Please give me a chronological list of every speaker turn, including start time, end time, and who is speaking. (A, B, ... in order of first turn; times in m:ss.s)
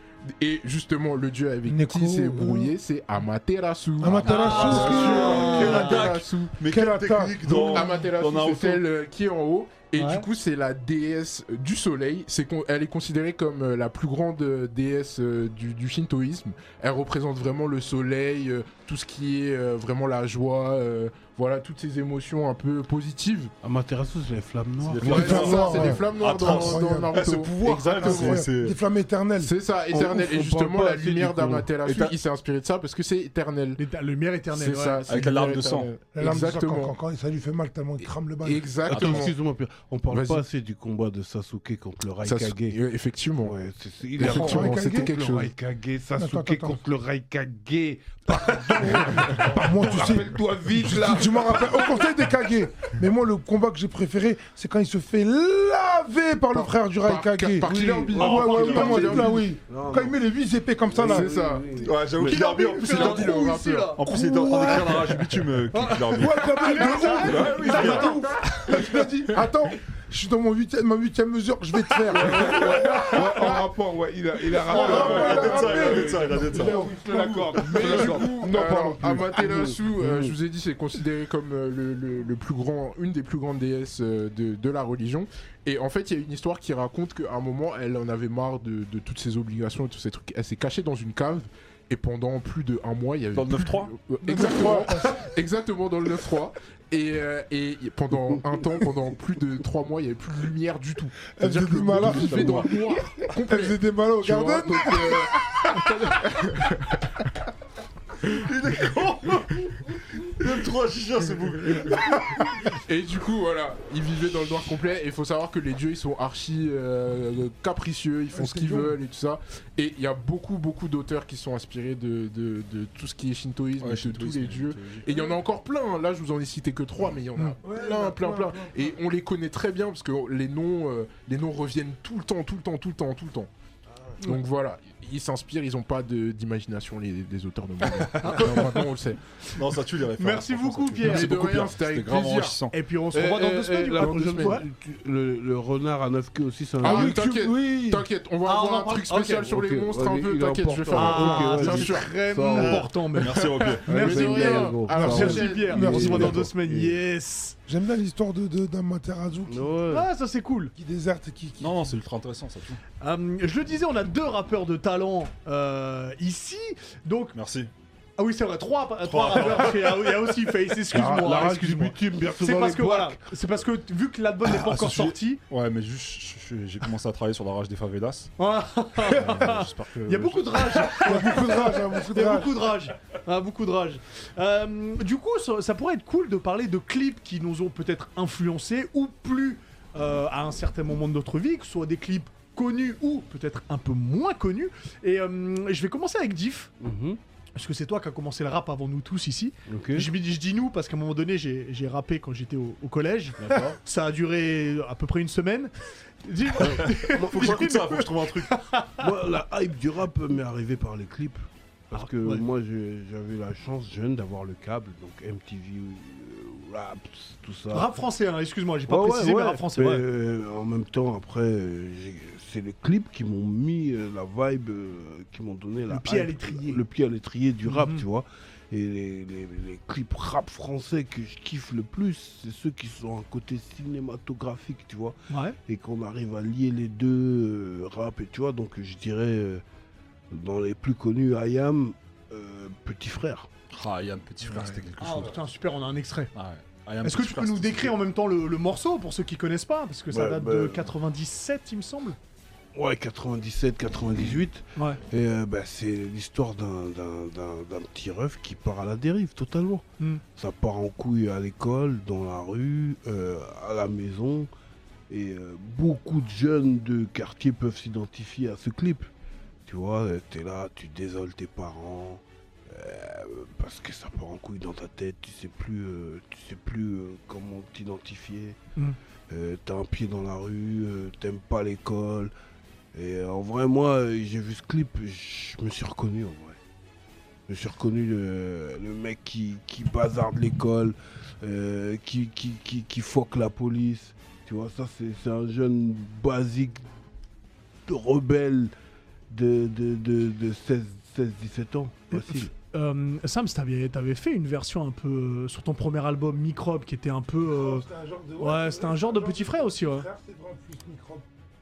0:00.4-0:06.6 A
0:01.7-0:02.7 B
0:04.0-0:05.8 B
0:04.0-0:08.8 C
0:04.2-0:06.1 D
0:06.7-0:08.1 B
0:07.7-0:23.5 A
0:10.0-0:10.2 D
0:23.6-0:26.0 E
0:24.8-0:28.8 C
0:25.0-0:28.5 A
0:25.0-0:29.5 B
0:29.4-0:33.8 A
0:29.9-0:32.2 E
0:33.8-0:35.1 D
0:34.5-0:36.9 A
0:35.1-0:35.9 C
0:36.2-0:38.7 B
0:38.4-0:39.4 A
0:38.9-0:42.8 E
0:38.9-0:39.3 C
0:40.1-0:40.4 A
0:42.2-0:43.6 A
0:43.4-0:51.9 E
0:44.2-0:45.5 A
0:44.2-0:45.1 B
0:46.2-0:46.8 B
0:48.8-1:01.3 B
0:56.5-0:59.5 A
0:57.6-1:00.2 E
0:58.2-0:59.2 D
1:00.9-1:02.4 E
1:01.0-1:01.7 A
1:01.8-1:08.3 C
1:02.2-1:08.5 D
1:02.3-1:04.0 A
1:06.1-1:13.5 B
1:07.5-1:09.5 A
1:11.9-1:13.6 A
1:12.1-1:20.3 E
1:14.5-1:19.3 B
1:14.7-1:17.0 C
1:14.7-1:15.3 D
1:17.6-1:47.1 A
1:17.6-1:17.9 C
1:33.3-1:33.9 C
1:34.2-1:35.3 B
1:41.3-1:45.9 B
1:41.9-1:42.7 C
1:48.2-1:52.5 C
1:52.1-2:13.5 A
1:58.3-1:59.0 B
2:03.8-2:05.1 C
2:07.4-2:09.0 B
2:14.2-2:19.2 A
2:18.2-2:18.8 D
2:18.2-2:18.6 C
2:19.5-2:22.7 C
2:20.2-2:21.3 D
2:21.0-2:22.6 A
2:22.7-2:24.6 D
2:23.1-2:27.5 E
2:24.0-2:24.6 A
2:26.8-2:32.1 A
2:26.8-2:28.0 B
2:28.4-2:29.5 D
2:29.4-2:32.9 E
2:30.9-2:37.6 D
2:32.5-2:34.2 C
2:33.3-2:36.1 A
2:33.9-2:37.0 E
2:34.9-2:36.5 B
2:35.9-2:36.4 C
2:37.7-2:39.8 B
2:39.5-2:40.1 E
2:39.9-2:40.7 D
2:40.8-2:41.8 B
2:41.6-2:42.8 C
2:43.0-2:47.4 D
2:47.3-2:47.7 C
2:48.2-2:55.4 D
2:49.0-2:50.1 C
2:50.9-2:53.2 E
2:54.5-2:58.3 C
2:58.4-3:16.7 D
2:59.0-3:01.0 C
3:01.0-3:02.7 B
3:16.8-3:17.2 E
3:17.6-3:29.1 D
3:19.7-3:20.1 E
3:23.4-3:23.8 C
3:26.6-3:27.7 E
3:26.7-3:28.6 C
3:29.0-3:37.9 E
3:31.9-3:32.4 D
3:37.7-3:40.0 D
3:38.9-3:59.6 E
3:45.9-3:46.8 D
3:47.7-3:48.0 D
3:55.3-3:55.6 D
4:00.3-4:03.5 E
4:03.7-4:05.4 C
4:05.0-4:06.3 D
4:06.3-4:08.0 C
4:07.0-4:12.2 D
4:10.1-4:10.9 E
4:12.8-4:24.5 E
4:14.8-4:15.0 D
4:25.1-4:29.1 E
4:29.7-4:38.6 E
4:39.3-4:42.3 E
4:42.9-4:46.6 E
4:47.5-4:56.8 E
4:57.9-4:58.7 E
4:59.3-5:02.5 E
5:02.1-5:07.9 D
5:07.4-5:11.2 B
5:08.4-5:10.1 D